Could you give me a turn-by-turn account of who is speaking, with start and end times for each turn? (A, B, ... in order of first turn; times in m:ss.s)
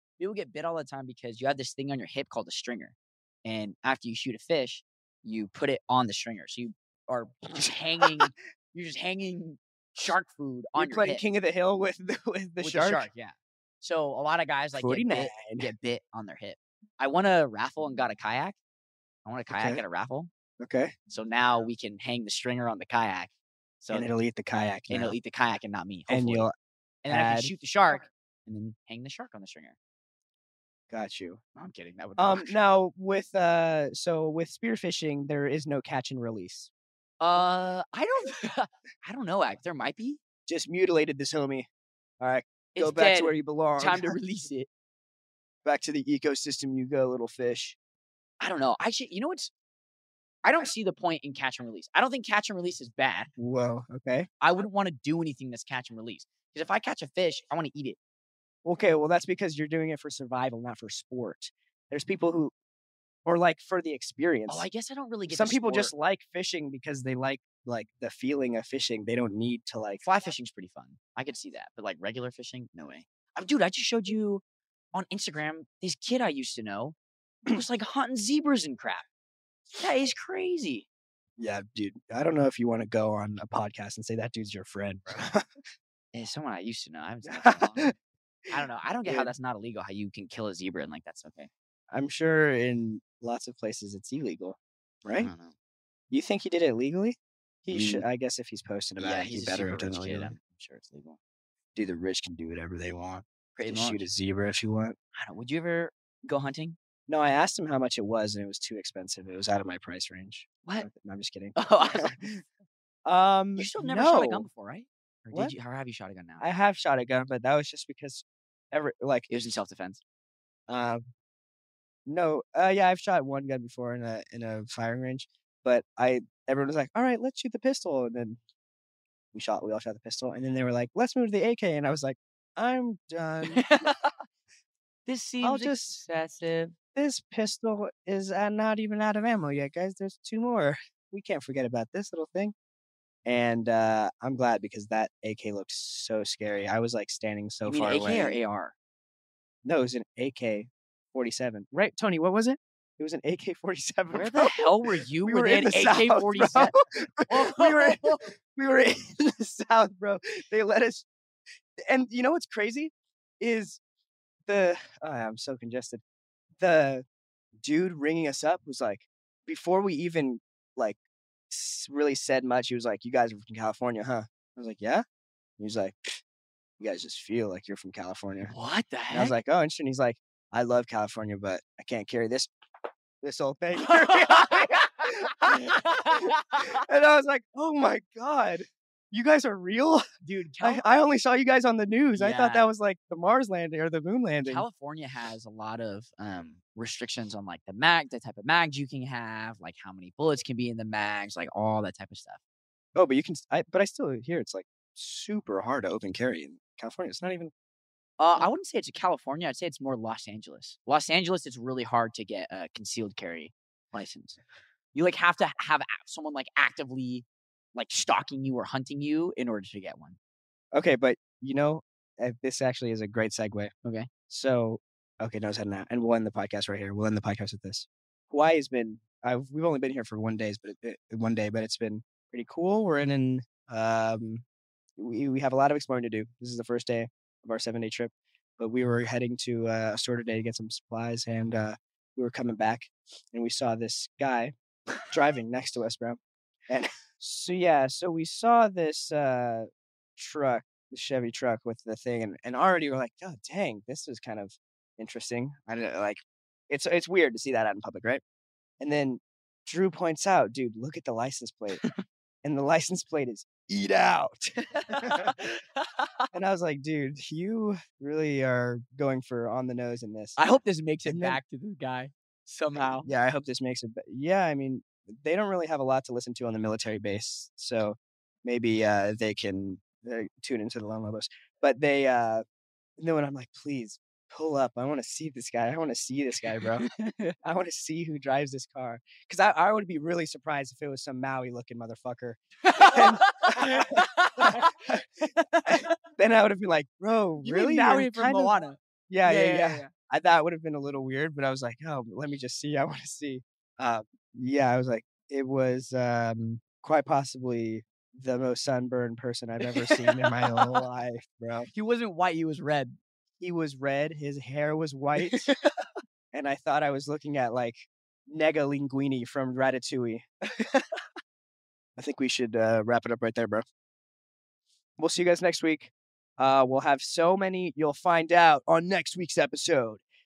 0:00.2-0:11.2 A
0:10.8-0:13.1 B
0:12.6-0:18.6 A
0:14.7-0:15.7 B
0:19.2-0:20.3 A
0:19.5-0:19.8 B
0:20.6-0:20.9 B
0:21.1-0:24.1 A
0:23.9-0:25.2 B
0:24.9-0:26.5 A
0:26.1-0:26.5 B
0:27.0-0:29.8 A
0:27.1-0:27.5 B
0:30.9-0:31.4 B
0:31.6-0:32.6 A
0:32.2-0:36.7 B
0:37.2-0:40.2 A
0:40.5-0:41.7 B
0:42.2-0:44.2 B
0:42.8-0:44.7 A
0:45.6-0:47.8 B
0:48.4-0:49.5 A
0:50.4-0:53.3 A
0:53.4-0:54.3 B
0:54.4-0:58.0 A
0:58.6-1:02.5 B
1:03.2-1:04.7 B
1:04.5-1:05.9 A
1:05.3-1:10.0 B
1:10.0-1:14.4 A
1:14.9-1:17.0 A
1:17.5-1:19.0 A
1:19.8-1:20.9 A
1:21.4-1:25.4 B
1:26.1-1:27.9 A
1:27.3-1:27.9 B
1:28.5-1:31.5 A
1:29.1-1:29.3 B
1:31.9-1:35.3 B
1:35.2-1:35.6 A
1:36.1-1:40.4 B
1:37.7-1:38.0 A
1:39.0-1:41.2 A
1:41.8-1:45.0 B
1:43.6-1:44.1 A
1:45.2-1:46.8 A
1:47.1-1:52.4 B
1:51.6-1:52.2 A
1:53.1-1:54.5 B
1:53.6-1:56.4 A
1:56.4-1:59.3 B
1:59.3-2:00.0 A
2:00.7-2:01.0 B
2:02.1-2:08.4 B
2:09.3-2:13.6 B
2:13.5-2:14.1 A
2:15.1-2:16.8 A
2:15.4-2:16.0 B
2:17.0-2:22.5 B
2:23.2-2:28.4 B
2:27.7-2:28.8 A
2:29.6-2:41.1 B
2:34.1-2:36.8 A
2:37.3-2:38.2 A
2:41.8-2:43.8 B
2:44.5-2:46.0 B
2:46.6-2:47.0 B
2:47.6-2:51.0 B
2:51.5-2:55.0 B
2:55.6-2:56.2 B
2:56.8-2:58.5 B
2:58.5-2:59.4 A
2:59.1-3:02.5 B
3:03.2-3:10.1 B
3:03.8-3:06.8 A
3:10.2-3:10.8 A
3:10.6-3:14.6 B
3:12.1-3:12.6 A
3:14.4-3:22.4 A
3:23.0-3:27.5 B
3:28.2-3:34.4 A
3:34.9-3:40.2 A
3:40.7-3:43.7 B
3:44.3-3:54.4 B
3:55.0-4:04.5 B
4:05.1-4:16.2 B
4:16.7-4:18.2 B
4:18.8-4:21.8 B
4:22.4-4:25.5 B
4:24.8-4:26.3 A
4:26.3-4:30.4 B
4:30.4-4:33.1 A
4:31.0-4:31.4 B
4:33.0-4:42.4 B
4:43.0-4:46.9 B
4:46.9-4:47.4 A
4:47.4-4:55.1 B
4:52.6-4:56.0 A
4:55.7-4:58.5 B
4:57.4-4:59.9 A
4:59.1-5:11.7 B
5:09.8-5:10.8 A
5:11.7-5:13.0 A
5:13.4-5:15.5 B
5:15.2-5:15.7 A
5:16.3-5:17.8 B
5:18.3-5:20.9 B
5:22.0-5:23.6 B
5:25.0-5:30.0 B